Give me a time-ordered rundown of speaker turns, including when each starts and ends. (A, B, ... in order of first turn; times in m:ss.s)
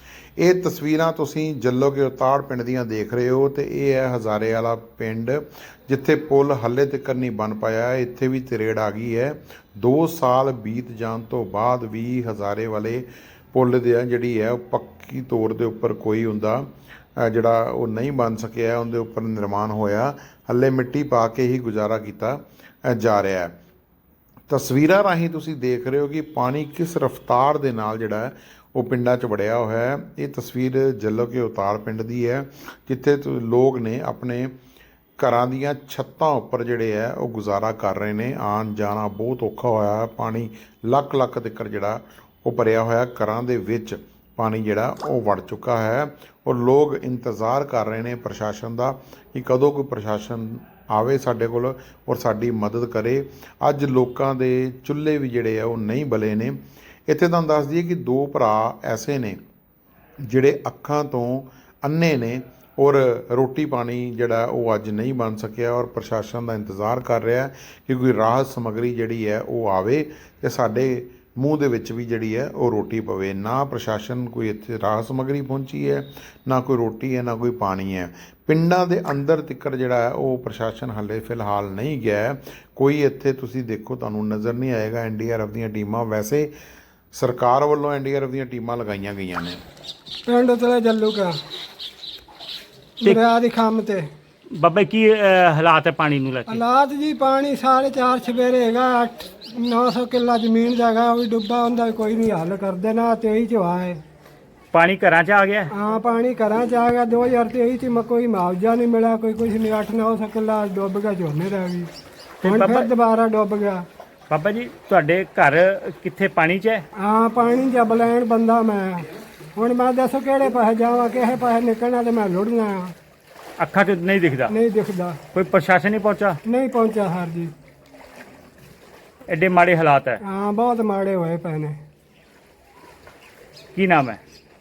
0:00.4-0:23.5 A
0:24.5-0:34.5 A
0:35.2-0:59.4 A
1:00.2-1:26.5 A
1:27.1-1:29.6 A
1:30.2-1:31.4 B
1:33.0-1:34.0 B
1:34.6-1:36.6 C
1:36.5-1:44.0 B
1:44.7-1:45.7 C
1:45.7-1:51.9 B
1:52.4-1:52.9 C
1:52.4-1:53.8 B
1:54.3-1:56.8 C
1:56.9-2:02.9 B
2:03.6-2:04.5 C
2:04.5-2:05.2 B
2:05.3-2:06.4 C
2:06.4-2:07.5 B
2:09.3-2:10.2 C
2:10.2-2:11.8 B
2:13.7-2:14.2 C